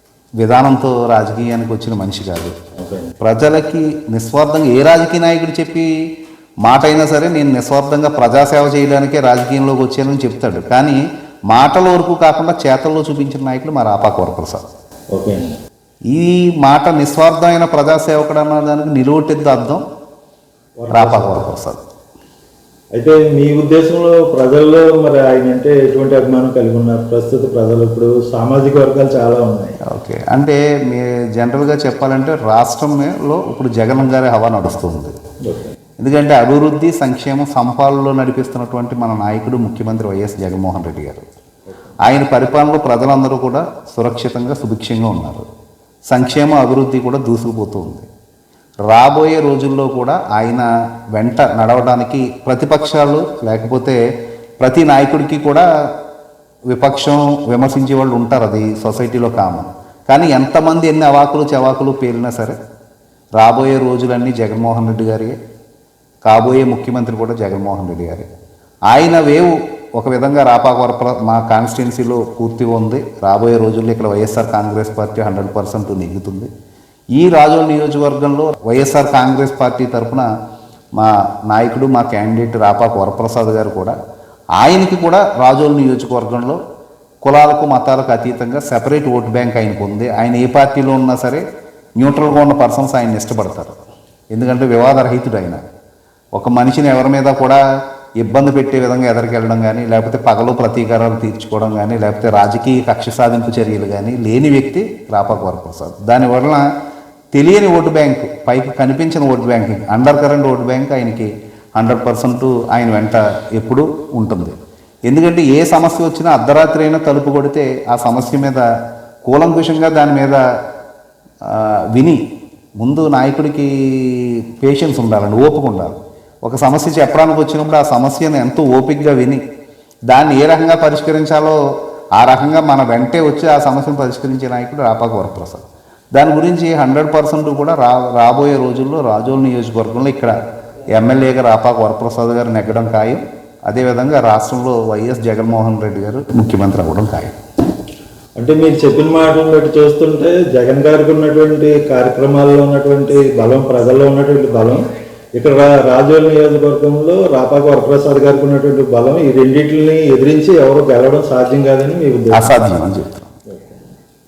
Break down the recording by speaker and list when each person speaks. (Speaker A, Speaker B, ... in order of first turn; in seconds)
Speaker A: 0.4-2.6, 3.2-5.9, 6.6-14.6, 16.1-19.8, 20.9-21.8, 29.9-35.1, 36.0-41.3, 42.0-45.5, 46.1-48.1, 48.9-54.0, 54.6-55.7, 56.7-62.6, 63.4-65.4, 66.2-68.3, 68.9-76.5, 77.2-80.3, 81.0-84.0, 84.6-86.6, 87.2-91.4, 92.0-93.8, 94.3-95.6, 96.3-97.6, 98.2-106.7, 107.3-114.5, 115.1-118.6, 119.3-120.4, 121.5-122.2, 122.8-129.4, 130.1-131.6, 132.2-140.3, 140.9-147.4, 162.3-163.3
Speaker B: 2.8-3.1, 15.1-15.6, 20.8-21.5, 23.0-29.7, 35.5-35.8, 148.4-154.8, 155.4-162.6, 163.5-163.8